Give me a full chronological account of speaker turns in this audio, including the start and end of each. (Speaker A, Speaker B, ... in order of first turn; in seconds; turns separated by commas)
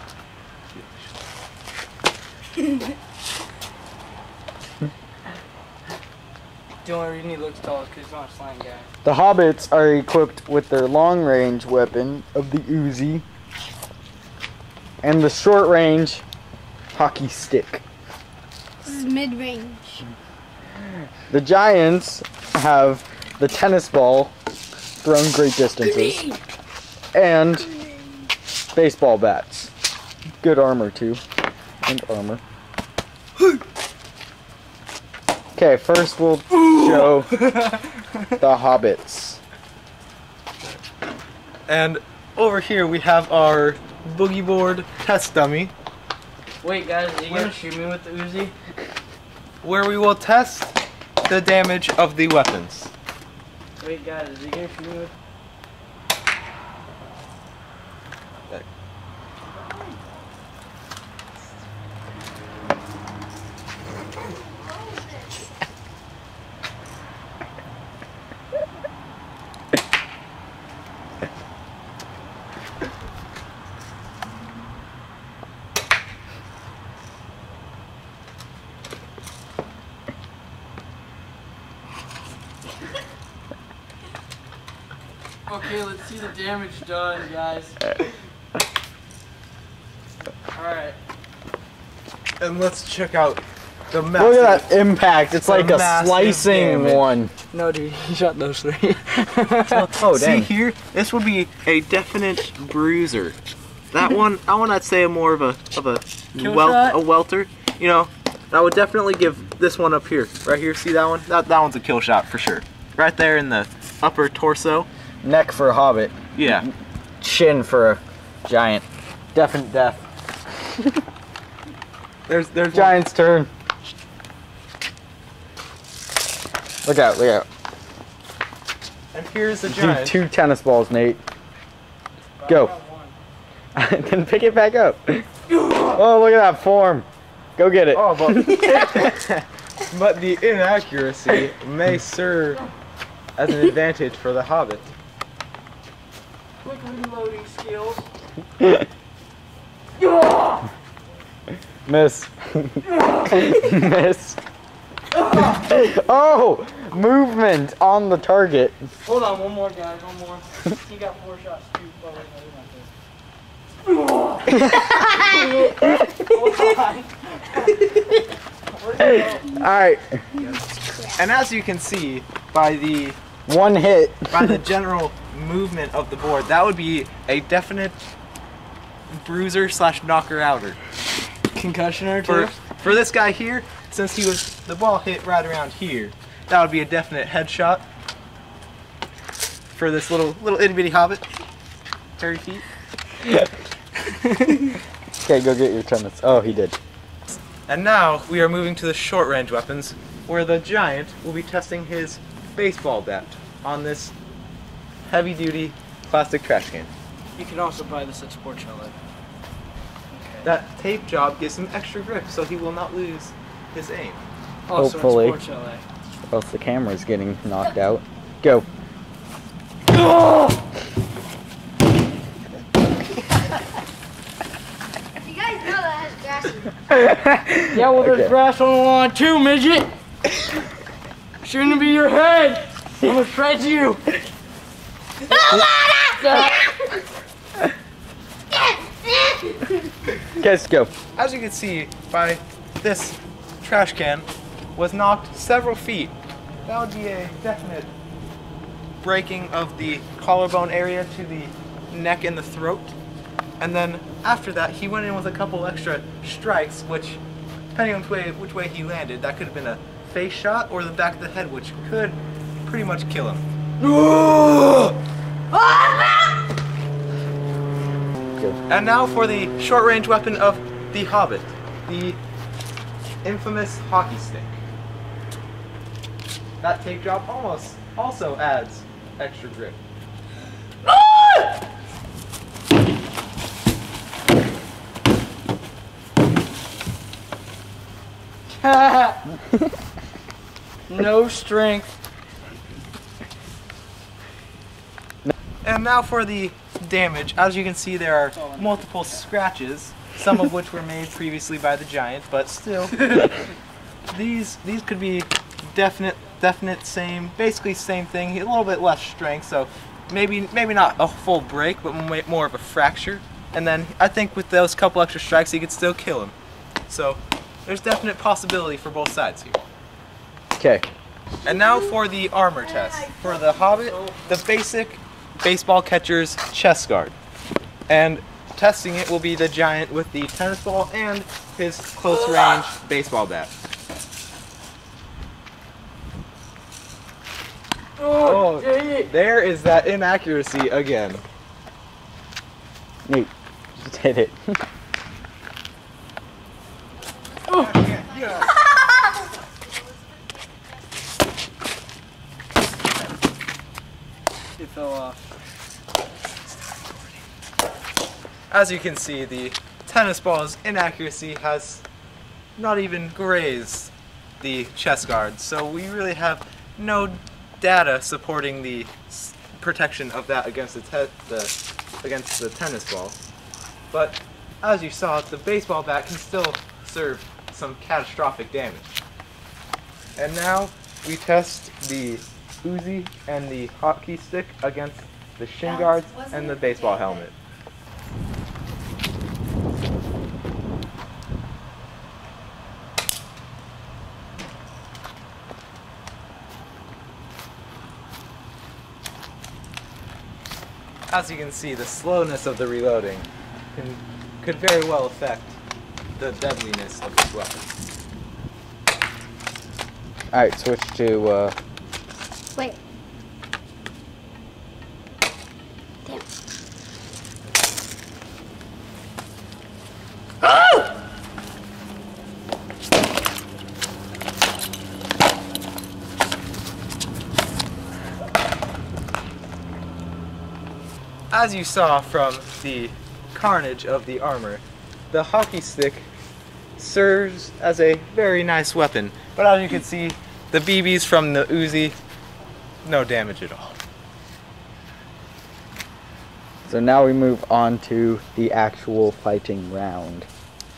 Speaker A: 0.7-1.1, Speaker B: 6.8-8.9, Speaker C: 9.0-13.2, Speaker C: 15.0-16.2, Speaker C: 16.9-17.8, Speaker D: 18.8-20.0, Speaker C: 21.3-24.3, Speaker C: 25.0-26.3, Speaker C: 27.1-27.7, Speaker C: 28.7-29.7, Speaker C: 30.4-31.2, Speaker C: 31.8-32.4, Speaker C: 35.5-37.4, Speaker B: 36.8-37.8, Speaker C: 38.4-39.4, Speaker A: 41.7-45.7, Speaker B: 46.6-48.5, Speaker A: 47.3-47.5, Speaker A: 49.6-52.9, Speaker B: 53.8-55.1, Speaker D: 64.8-65.0, Speaker B: 85.5-88.0, Speaker B: 90.5-91.0, Speaker A: 92.4-94.8, Speaker C: 94.2-97.3, Speaker A: 95.5-97.0, Speaker B: 97.5-99.9, Speaker A: 99.7-103.4, Speaker C: 99.9-100.5, Speaker A: 103.9-114.9, Speaker B: 106.3-107.0, Speaker C: 115.2-116.1, Speaker A: 116.3-116.7, Speaker C: 117.2-120.1, Speaker A: 122.3-123.0, Speaker C: 122.7-123.5, Speaker C: 126.8-127.5, Speaker A: 129.1-130.2, Speaker C: 129.7-131.2, Speaker B: 132.4-133.2, Speaker C: 132.5-132.8, Speaker C: 133.8-139.1, Speaker A: 137.9-142.6, Speaker A: 143.3-144.9, Speaker B: 146.6-148.1, Speaker B: 150.0-150.7, Speaker C: 151.8-154.4, Speaker B: 152.9-153.6, Speaker C: 155.3-158.9, Speaker B: 159.0-162.9, Speaker B: 163.9-164.6, Speaker C: 164.5-166.2, Speaker B: 165.1-167.8, Speaker B: 168.8-169.6, Speaker C: 169.0-170.4, Speaker D: 170.5-171.1, Speaker A: 171.1-173.2, Speaker C: 173.4-174.6, Speaker A: 174.3-178.0, Speaker A: 179.1-180.8, Speaker B: 181.5-182.5, Speaker A: 182.2-187.9, Speaker A: 189.7-191.2, Speaker A: 192.2-192.6, Speaker C: 195.2-196.8, Speaker A: 197.7-204.1, Speaker A: 205.1-206.9, Speaker B: 207.3-208.9, Speaker B: 210.1-210.5, Speaker A: 210.4-214.2, Speaker B: 214.7-215.8, Speaker C: 214.8-215.4, Speaker C: 216.3-218.7, Speaker B: 220.1-220.5, Speaker D: 225.2-226.7, Speaker C: 226.9-228.3, Speaker B: 227.7-229.9, Speaker B: 231.4-234.2, Speaker D: 235.3-236.6, Speaker B: 235.4-236.6, Speaker D: 238.6-239.2, Speaker C: 240.3-240.9, Speaker A: 241.1-246.1, Speaker A: 246.7-247.9, Speaker A: 249.0-252.9, Speaker A: 253.6-257.2, Speaker A: 257.7-263.4, Speaker B: 263.8-265.0, Speaker B: 265.5-266.4, Speaker A: 268.7-272.2, Speaker A: 273.2-274.6, Speaker A: 276.6-279.8, Speaker B: 280.8-281.5, Speaker B: 288.5-289.2, Speaker B: 290.9-291.9, Speaker A: 295.6-303.3, Speaker B: 298.3-299.2, Speaker A: 304.1-316.3, Speaker A: 316.9-319.6, Speaker C: 320.6-320.9, Speaker A: 321.4-327.1, Speaker B: 323.7-324.3, Speaker A: 327.9-333.5, Speaker B: 338.0-339.1, Speaker A: 338.2-341.2, Speaker C: 343.1-344.6, Speaker D: 346.9-350.8, Speaker A: 347.5-348.6, Speaker B: 354.6-355.3, Speaker A: 358.5-361.8, Speaker A: 362.6-373.1, Speaker A: 373.9-378.9, Speaker A: 380.2-387.4, Speaker D: 385.6-387.2, Speaker A: 401.1-405.6, Speaker A: 406.2-407.7, Speaker C: 410.3-411.5, Speaker D: 420.5-420.8, Speaker A: 431.3-436.1, Speaker A: 436.8-442.0, Speaker A: 442.8-443.8, Speaker C: 446.6-450.3